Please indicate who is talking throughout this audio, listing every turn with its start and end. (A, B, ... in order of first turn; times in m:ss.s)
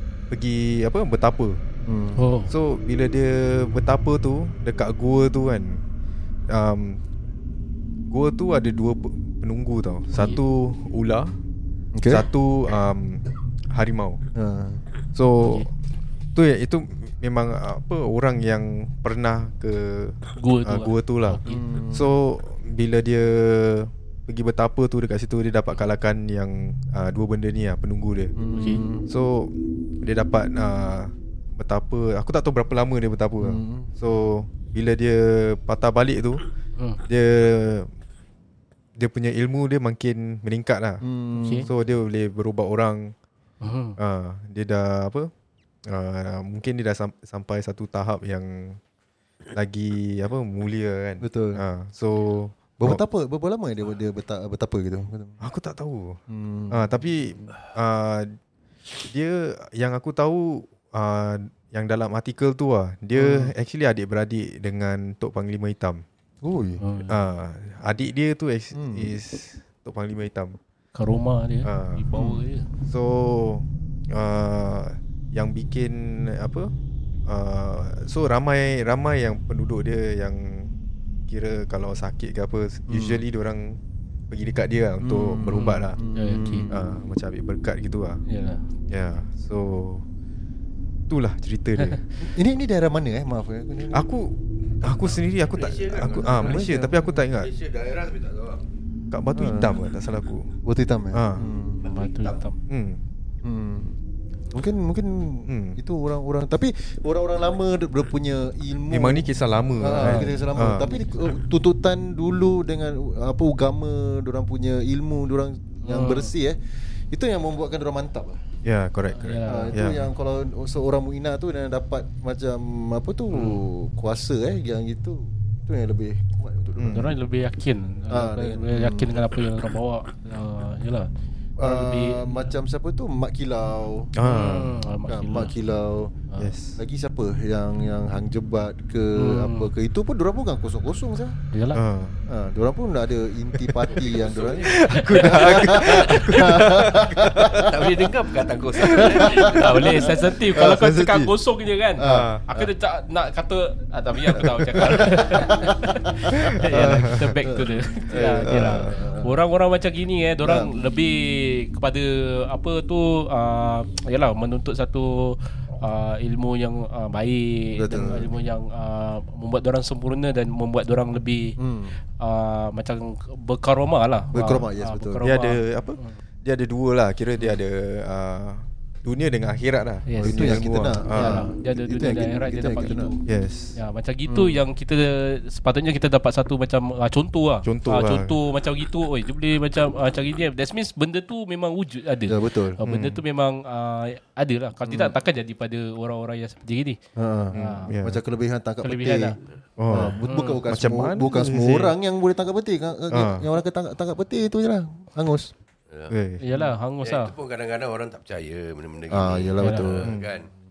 0:00.3-0:01.6 A
0:01.8-0:02.2 B
0:02.2-0:02.5 C
0:02.5-0:05.8 A
0:06.5-0:07.0 A
0:08.1-0:11.3 A
0:11.9-0:12.2 B
0:12.1-0:14.2 A
0:14.3-0:14.8 B
0:15.1-0:15.7 A
0:16.3-0:28.3 A
0:20.4-0:21.6 C
0:21.4-0:22.1 B
0:28.4-0:29.1 B
0:28.5-0:28.8 C
0:29.1-0:36.4 A
0:33.4-0:33.9 B
0:36.8-0:37.0 C
0:37.1-0:37.9 A
0:39.0-0:41.0 A
0:41.0-0:41.7 B
0:41.4-0:41.7 C
0:41.6-0:43.1 A
0:43.6-0:44.0 C
0:44.0-0:45.3 A
0:45.9-0:48.8 A
0:49.5-0:53.0 A
0:51.2-0:51.6 B
0:52.8-0:55.4 B
0:55.4-0:58.3 A
0:56.3-0:56.8 B
0:59.1-1:06.0 A
1:03.1-1:03.5 B
1:06.4-1:06.8 B
1:06.8-1:07.2 C
1:07.1-1:10.6 A
1:08.7-1:09.1 B
1:10.9-1:12.7 C
1:11.6-1:12.0 A
1:12.1-1:12.4 B
1:12.8-1:16.7 A
1:17.2-1:20.7 A
1:21.3-1:26.0 A
1:22.9-1:23.2 B
1:25.0-1:26.9 B
1:25.7-1:26.7 C
1:26.7-1:28.2 A
1:28.2-1:28.6 C
1:28.9-1:30.0 A
1:31.1-1:32.1 A
1:32.2-1:34.0 B
1:33.9-1:37.5 A
1:35.0-1:36.7 D
1:36.2-1:37.2 B
1:37.3-1:38.6 D
1:39.1-1:40.5 A
1:39.3-1:39.9 B
1:40.6-1:41.9 B
1:41.1-1:41.4 A
1:41.8-1:42.4 D
1:41.8-1:42.6 C
1:42.7-1:43.0 A
1:43.4-1:44.0 B
1:44.5-1:49.2 B
1:45.5-1:45.8 A
1:48.9-1:50.9 A
1:49.8-1:58.4 B
1:50.0-1:50.4 C
1:55.8-1:56.3 C
1:58.6-2:00.1 A
1:59.2-1:59.8 C
1:59.4-2:06.9 B
2:03.3-2:03.6 C
2:06.8-2:07.1 A
2:06.9-2:11.1 C
2:08.1-2:09.2 B
2:11.6-2:14.2 B
2:11.6-2:12.4 C
2:14.1-2:14.8 A
2:14.2-2:15.5 C
2:15.1-2:16.1 B
2:16.4-2:16.8 A
2:16.8-2:21.4 B
2:19.2-2:19.7 C
2:21.5-2:21.8 C
2:21.7-2:22.2 A
2:22.3-2:27.9 B
2:24.1-2:24.8 D
2:24.6-2:27.5 A
2:27.5-2:30.1 D
2:28.8-2:30.8 B
2:29.1-2:51.6 C
2:30.7-2:31.3 A
2:32.0-2:32.7 B
2:32.0-2:32.4 A
2:34.3-2:39.3 B
2:36.7-2:37.2 A
2:38.4-2:38.9 A
2:40.4-2:40.7 B
2:47.8-2:48.3 B
2:51.6-2:52.0 B
2:52.2-2:56.2 C
2:54.3-2:55.2 B
2:55.2-3:01.5 A
3:00.0-3:03.2 C
3:00.2-3:03.1 B
3:03.3-3:03.8 A
3:03.8-3:17.0 C
3:04.3-3:04.6 B
3:07.6-3:08.4 A
3:12.3-3:12.8 B
3:12.8-3:13.2 A
3:14.8-3:15.1 B
3:17.2-3:19.3 B
3:17.5-3:18.2 A
3:17.5-3:17.9 C
3:18.8-3:19.4 C
3:19.8-3:21.9 A
3:19.9-3:25.5 B
3:20.2-3:20.6 C
3:23.1-3:23.4 A
3:26.1-3:26.4 A
3:26.4-3:27.3 C
3:27.0-3:30.5 D
3:29.1-3:30.6 B
3:29.6-3:29.9 C